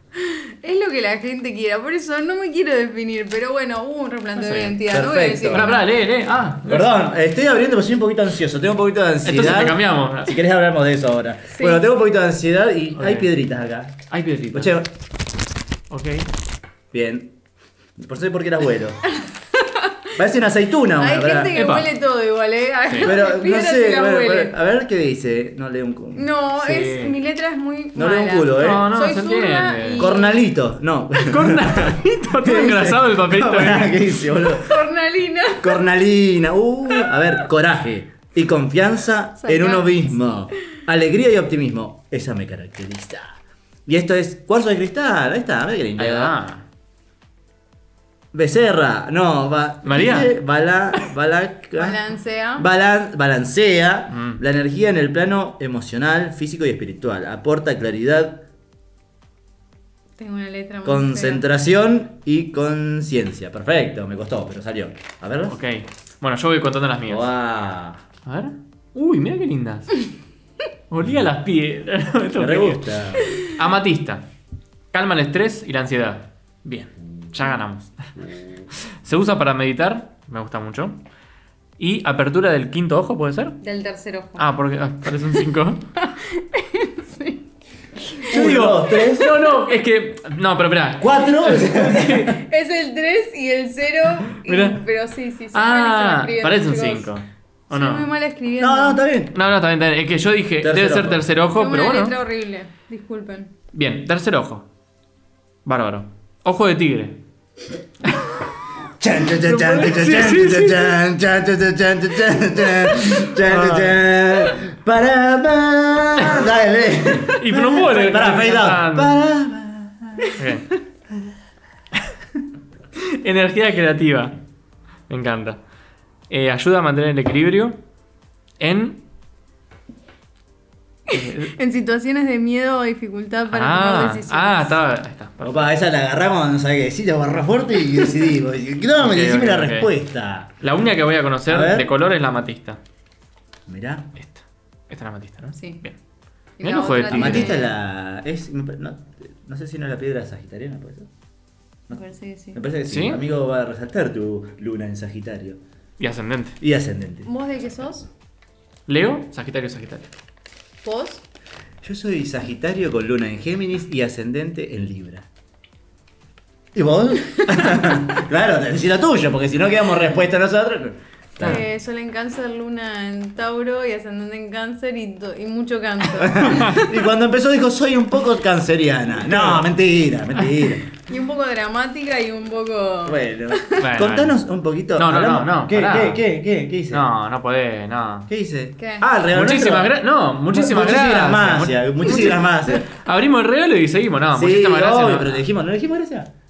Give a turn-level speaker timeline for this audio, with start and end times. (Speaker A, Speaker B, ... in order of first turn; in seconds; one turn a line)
Speaker A: 0.2-5.8
Speaker B: 4.4-4.8
Speaker C: 4.9-5.8
Speaker B: 5.5-6.9
Speaker C: 6.6-14.9
Speaker B: 9.2-10.4
Speaker A: 11.5-11.8
Speaker B: 13.0-13.3
Speaker B: 14.1-14.8
Speaker B: 15.9-16.3
Speaker C: 16.9-17.4
Speaker C: 18.0-19.0
Speaker A: 19.6-19.9
Speaker C: 20.2-21.6
Speaker A: 21.0-24.5
Speaker B: 21.6-21.9
Speaker C: 23.0-26.3
Speaker A: 26.1-30.5
Speaker B: 26.6-27.2
Speaker C: 27.9-28.9
Speaker B: 28.6-30.1
Speaker C: 30.0-34.8
Speaker B: 31.2-34.0
Speaker A: 34.6-35.8
Speaker C: 35.6-46.4
Speaker A: 39.4-40.3
Speaker B: 46.0-46.7
Speaker C: 48.3-52.0
Speaker B: 49.8-50.3
Speaker A: 51.8-52.7
Speaker C: 52.6-58.5
Speaker B: 54.1-54.4
Speaker A: 60.2-61.4
Speaker C: 60.9-65.6
Speaker B: 65.5-67.3
Speaker C: 67.1-68.0
Speaker B: 68.2-70.1
Speaker B: 70.9-72.9
Speaker C: 72.4-73.4
Speaker B: 73.4-74.2
Speaker B: 74.9-78.2
Speaker C: 78.2-78.5
Speaker B: 78.8-81.0
Speaker B: 81.8-83.6
Speaker A: 83.6-84.5
Speaker B: 84.4-85.8
Speaker A: 86.0-87.4
Speaker B: 88.2-92.4
Speaker C: 88.3-89.3
Speaker C: 91.0-92.3
Speaker A: 92.2-97.1
Speaker B: 94.4-94.8
Speaker B: 95.5-98.1
Speaker A: 97.7-99.0
Speaker C: 98.6-99.3
Speaker B: 99.3-102.2
Speaker C: 100.6-101.2
Speaker A: 101.5-103.5
Speaker B: 103.7-104.7
Speaker B: 105.7-107.2
Speaker C: 109.0-120.4
Speaker B: 109.4-110.9
Speaker B: 113.5-114.0
Speaker B: 117.3-119.1
Speaker B: 120.4-120.7
Speaker B: 123.0-124.4
Speaker B: 125.1-125.6
Speaker B: 126.3-127.8
Speaker B: 128.6-129.0
Speaker B: 131.1-131.5
Speaker A: 131.4-134.8
Speaker B: 133.5-135.6
Speaker C: 135.4-140.6
Speaker B: 139.0-139.9
Speaker B: 140.6-142.8
Speaker C: 141.5-141.9
Speaker C: 143.7-144.1
Speaker B: 144.2-146.0
Speaker A: 146.6-147.7
Speaker B: 146.6-147.6
Speaker C: 147.1-151.1
Speaker A: 151.9-152.6
Speaker C: 152.5-155.6
Speaker B: 152.9-153.2
Speaker B: 156.0-156.6
Speaker C: 156.6-157.3
Speaker A: 157.3-158.1
Speaker B: 158.9-160.1
Speaker A: 160.8-161.2
Speaker C: 161.8-165.3
Speaker C: 166.7-171.6
Speaker A: 171.4-176.9
Speaker C: 176.2-180.8
Speaker B: 179.3-179.6
Speaker A: 181.1-183.8
Speaker C: 183.1-187.1
Speaker B: 183.8-184.4
Speaker B: 184.9-186.2
Speaker B: 186.9-188.3
Speaker C: 188.3-189.9
Speaker A: 188.8-189.1
Speaker B: 189.3-195.4
Speaker C: 190.5-192.9
Speaker C: 194.3-196.3